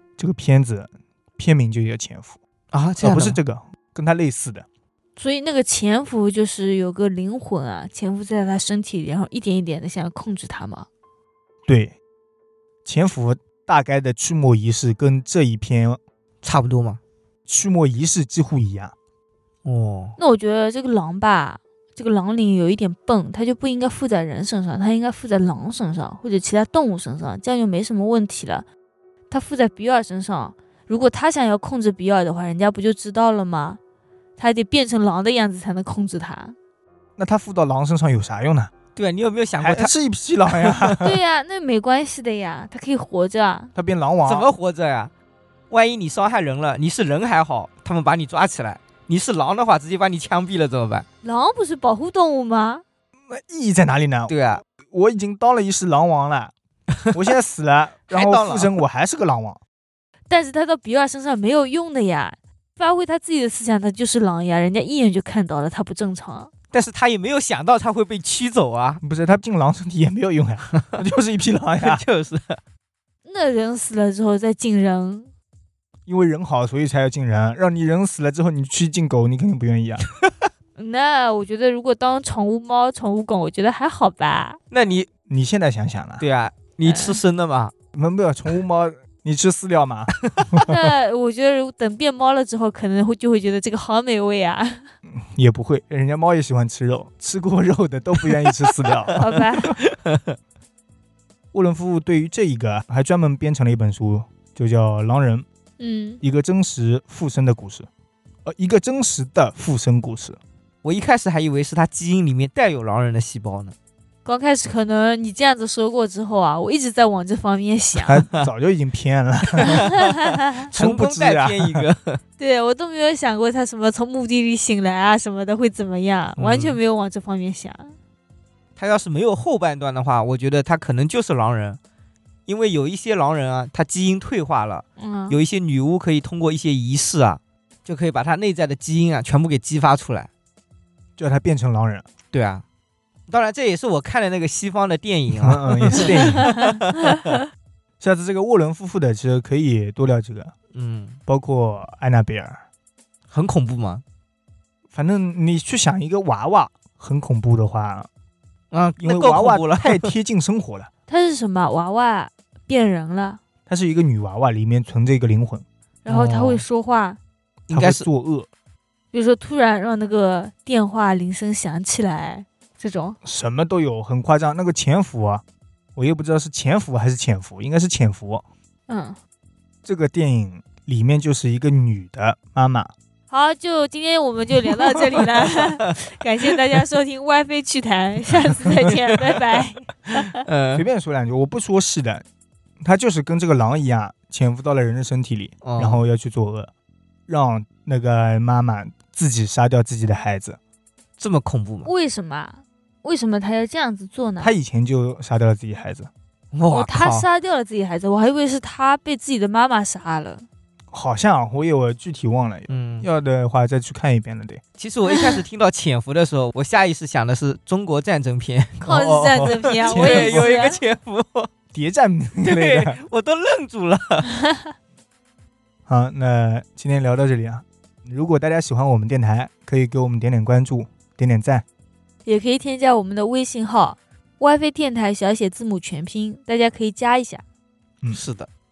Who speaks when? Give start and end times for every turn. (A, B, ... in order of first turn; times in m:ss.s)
0:00.2-0:02.4 A
0:02.7-0:03.4 B
0:03.0-0:04.7 A
0:05.2-0:10.9 C
0:11.7-0:12.0 A
0:12.8-0:16.0 A
0:16.4-0:17.0 B
0:17.5-0:18.9 A
0:19.6-0:20.2 B
0:20.2-0:28.7 C
0:29.3-0:33.8 C
0:34.4-0:36.6 C
0:37.2-0:38.7 A
0:39.0-0:39.9 B
0:39.6-0:41.2 A
0:40.5-0:41.0 B
0:41.0-0:43.7 C
0:43.8-0:44.5 A
0:44.2-0:45.1 B
0:45.7-0:51.1 B
0:51.2-0:52.8 C
0:53.3-0:56.5 A
0:54.3-0:54.6 B
0:57.1-0:59.6 A
0:58.1-0:58.8 B
1:00.3-1:06.5 C
1:06.7-1:09.0 B
1:09.0-1:12.0 A
1:11.8-1:12.6 B
1:13.2-1:15.3 C
1:16.1-1:20.1 A
1:20.8-1:24.6 C
1:24.7-1:25.1 B
1:25.3-1:26.3 A
1:26.2-1:27.7 B
1:26.8-1:27.2 C
1:27.9-1:30.7 A
1:30.2-1:30.5 B
1:30.6-1:34.9 C
1:35.1-1:39.3 A
1:39.2-1:39.8 C
1:39.8-1:40.4 B
1:41.5-1:45.5 A
1:45.8-1:46.2 C
1:46.2-1:47.9 A
1:48.4-1:50.4 A
1:50.8-1:53.7 B
1:54.2-1:58.2 C
1:58.1-1:59.9 A
1:59.5-1:59.9 B
1:59.7-2:00.6 C
2:00.6-2:02.2 B
2:00.7-2:01.9 A
2:02.4-2:07.9 C
2:06.4-2:06.8 B
2:08.8-2:11.8 B
2:12.5-2:20.3 B
2:15.0-2:15.4 C
2:21.2-2:22.1 A
2:22.3-2:22.6 B
2:23.3-2:27.2 B
2:25.3-2:26.5 A
2:28.0-2:30.5 A
2:30.7-2:31.2 B
2:31.3-2:32.6 A
2:33.3-2:34.0 B
2:34.9-2:38.1 A
2:38.7-2:40.1 B
2:39.0-2:40.9 A
2:41.1-2:43.4 C
2:43.7-2:45.6 A
2:46.0-2:47.2 C
2:46.1-2:46.6 B
2:47.7-2:48.1 B
2:47.7-2:48.5 A
2:49.1-2:53.2 C
2:53.2-2:55.4 A
2:56.0-2:58.4 A
2:58.9-2:59.2 C
2:59.8-3:02.9 A
3:03.3-3:10.4 C
3:10.3-3:10.8 B
3:10.8-3:12.2 A
3:12.8-3:16.7 A
3:15.6-3:16.0 B
3:17.3-3:20.6 A
3:21.2-3:21.9 B
3:21.8-3:24.5 C
3:24.4-3:26.1 A
3:26.5-3:27.3 B
3:26.7-3:30.5 C
3:30.9-3:34.6 A
3:32.7-3:33.1 B
3:34.8-3:41.5 B
3:35.1-3:35.4 C
3:38.8-3:40.8 C
3:39.8-3:40.5 A
3:41.7-3:43.0 A
3:42.4-3:44.3 B
3:45.9-3:51.6 A
3:52.3-3:57.4 C
3:58.1-3:58.5 B